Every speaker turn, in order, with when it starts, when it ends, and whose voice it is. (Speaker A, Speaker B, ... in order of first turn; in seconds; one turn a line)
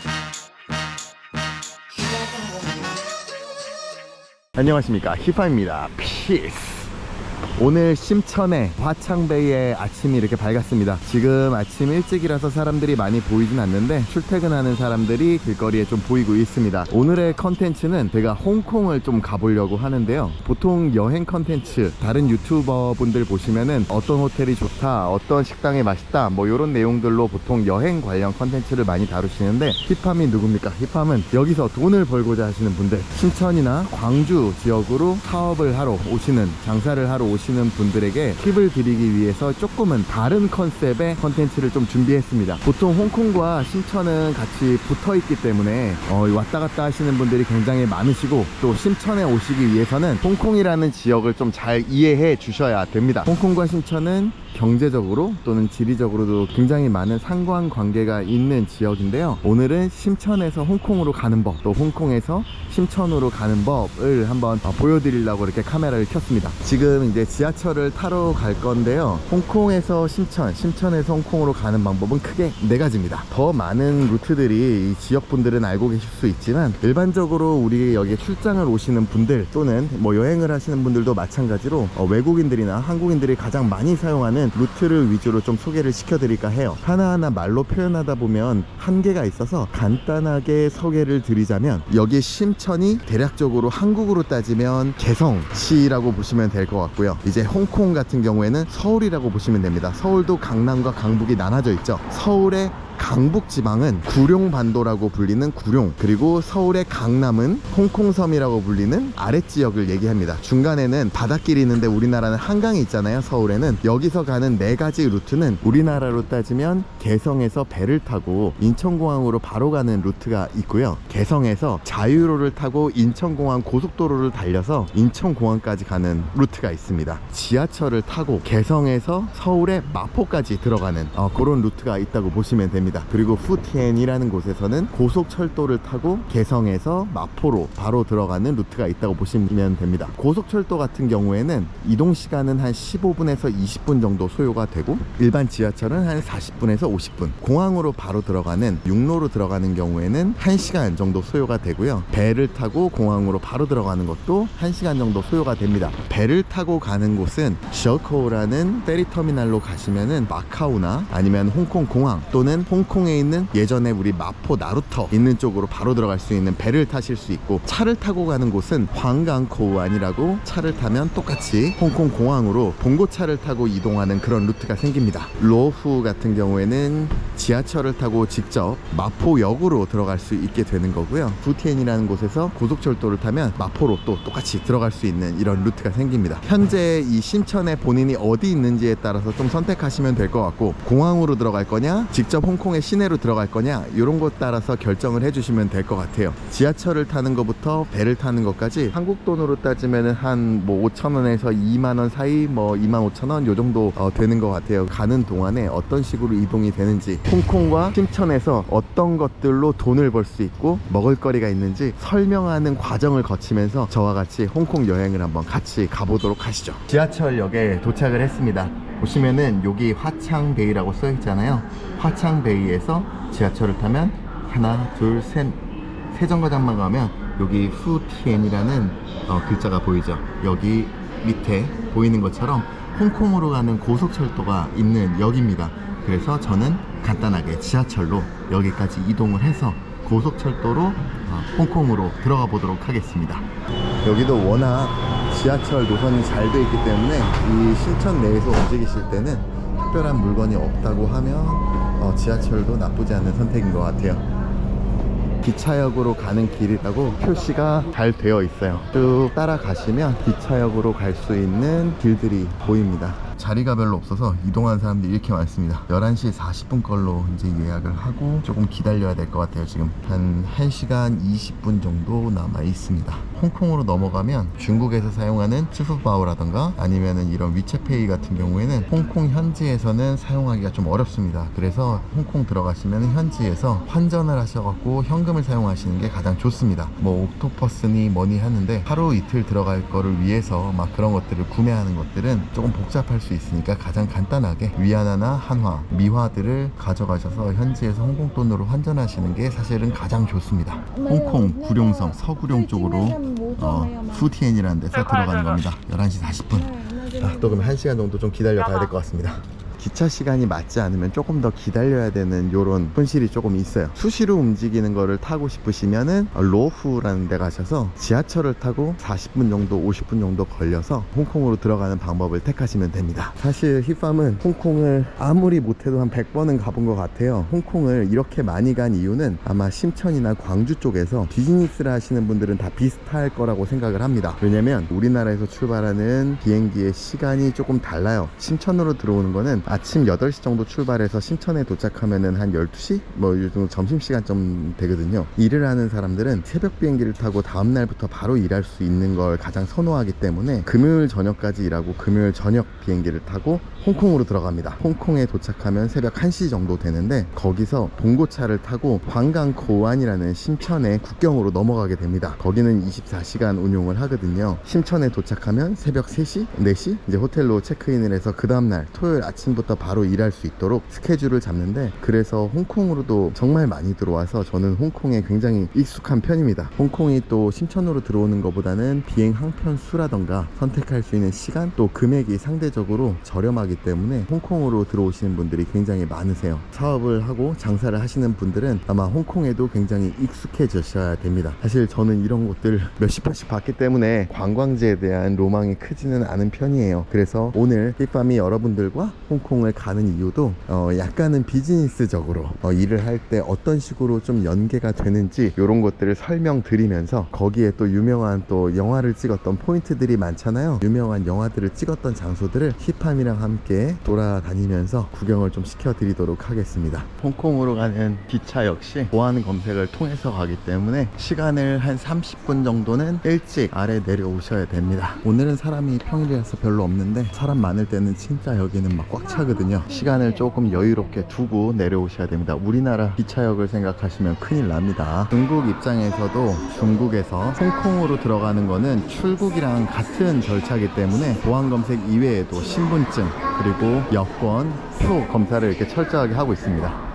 Speaker A: 4.5-6.9
Speaker A: 7.6-225.6
Speaker A: 226.1-243.5
Speaker A: 244.0-254.2
Speaker A: 255.4-447.0